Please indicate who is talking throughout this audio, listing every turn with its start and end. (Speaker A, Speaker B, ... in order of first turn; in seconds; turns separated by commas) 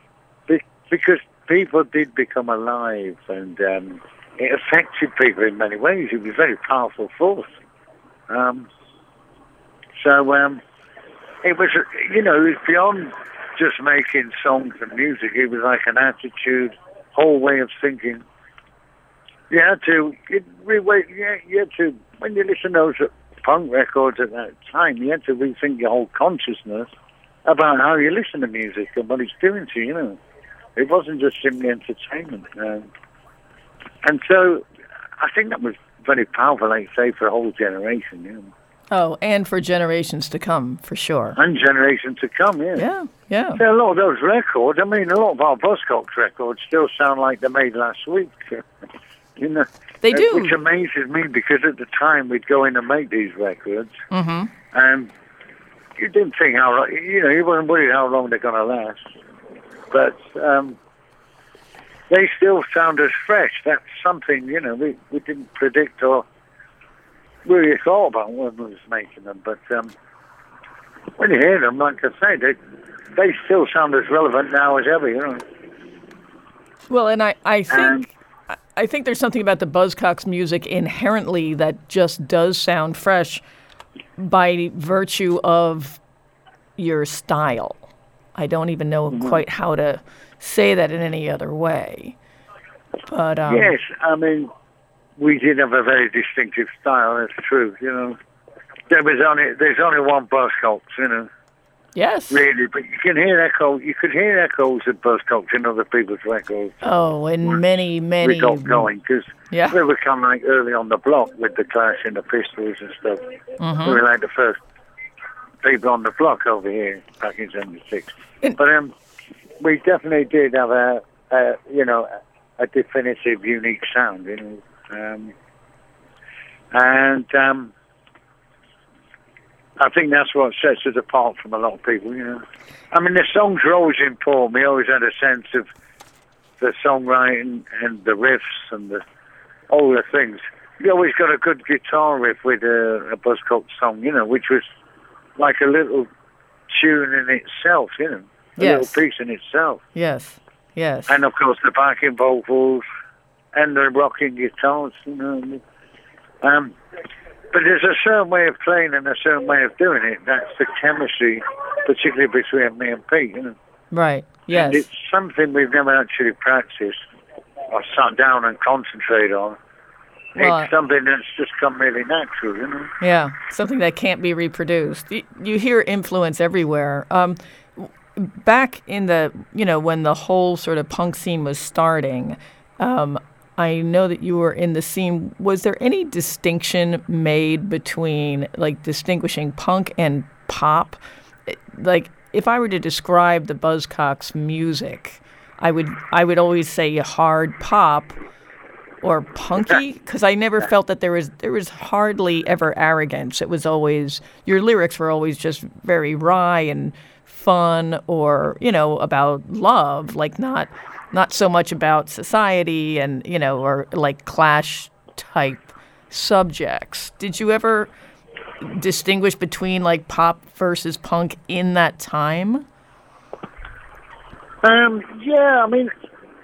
Speaker A: 0.5-7.5, Speaker A: 8.3-8.7, Speaker A: 10.0-10.6, Speaker A: 11.4-18.2, Speaker A: 19.5-26.9, Speaker A: 27.5-30.2, Speaker A: 30.8-32.9, Speaker A: 34.0-34.7, Speaker A: 35.2-38.5, Speaker B: 38.9-41.4, Speaker A: 41.4-42.9, Speaker B: 42.8-43.6, Speaker A: 43.6-48.6, Speaker A: 49.4-53.9, Speaker B: 50.0-50.6, Speaker B: 54.1-54.5, Speaker A: 54.7-55.1, Speaker A: 56.0-59.0, Speaker A: 59.9-60.8, Speaker A: 62.1-66.3, Speaker A: 67.5-69.9, Speaker A: 71.2-72.6, Speaker A: 73.2-75.4, Speaker B: 76.9-83.4, Speaker A: 77.7-78.1, Speaker B: 84.2-86.0, Speaker B: 86.8-87.8, Speaker B: 88.4-92.2, Speaker A: 89.1-89.4, Speaker B: 93.1-93.7, Speaker A: 93.5-94.5, Speaker A: 95.2-98.2, Speaker A: 98.9-101.3, Speaker B: 102.0-102.4, Speaker A: 102.3-106.8, Speaker B: 106.8-108.9, Speaker A: 108.2-113.2, Speaker B: 109.5-109.8, Speaker B: 113.6-114.0, Speaker A: 113.8-114.6, Speaker A: 115.6-118.9, Speaker A: 119.6-125.3, Speaker A: 126.7-127.7, Speaker A: 129.8-135.7, Speaker A: 136.6-139.0, Speaker A: 139.7-144.7, Speaker A: 145.4-146.1, Speaker A: 146.7-149.8, Speaker B: 148.6-148.9, Speaker B: 149.9-151.2, Speaker A: 151.1-152.8, Speaker A: 153.6-155.6, Speaker A: 156.4-156.8, Speaker A: 157.5-163.6, Speaker B: 163.9-164.8, Speaker A: 164.5-167.0, Speaker A: 167.7-169.6, Speaker A: 170.4-172.9, Speaker B: 170.4-170.7, Speaker B: 173.0-198.2, Speaker B: 199.0-217.9, Speaker B: 218.6-222.7, Speaker A: 224.6-225.9